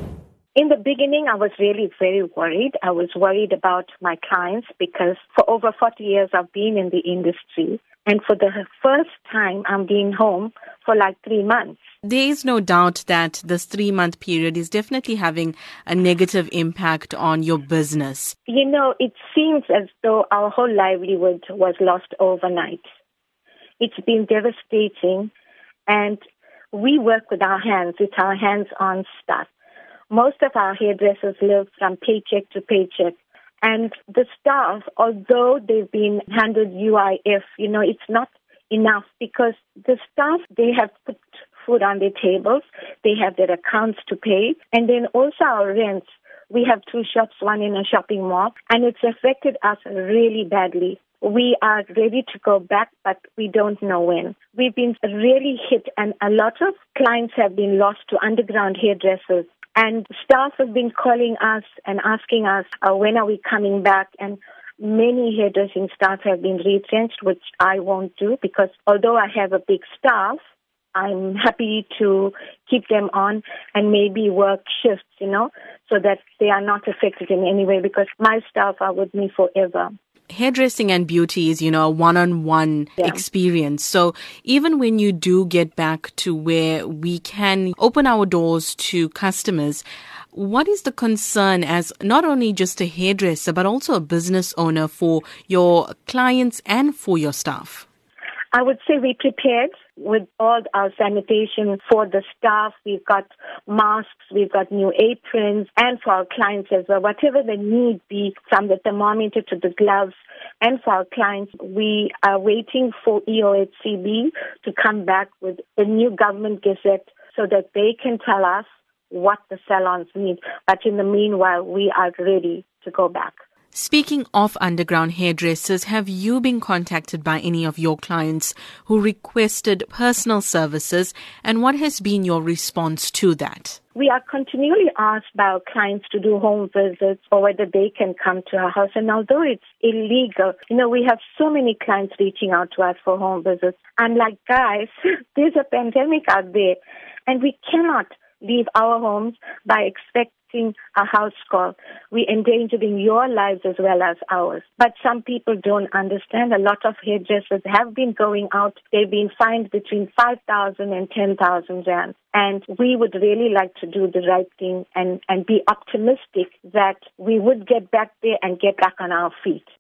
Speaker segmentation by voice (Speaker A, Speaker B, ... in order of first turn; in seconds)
Speaker A: 0.5-11.8, 18.5-22.9, 23.8-25.3, 25.9-26.2, 26.7-29.5, 30.1-70.4, 70.9-79.9, 98.5-123.3, 133.9-169.7
Speaker B: 12.0-18.3, 80.3-97.8, 123.7-133.8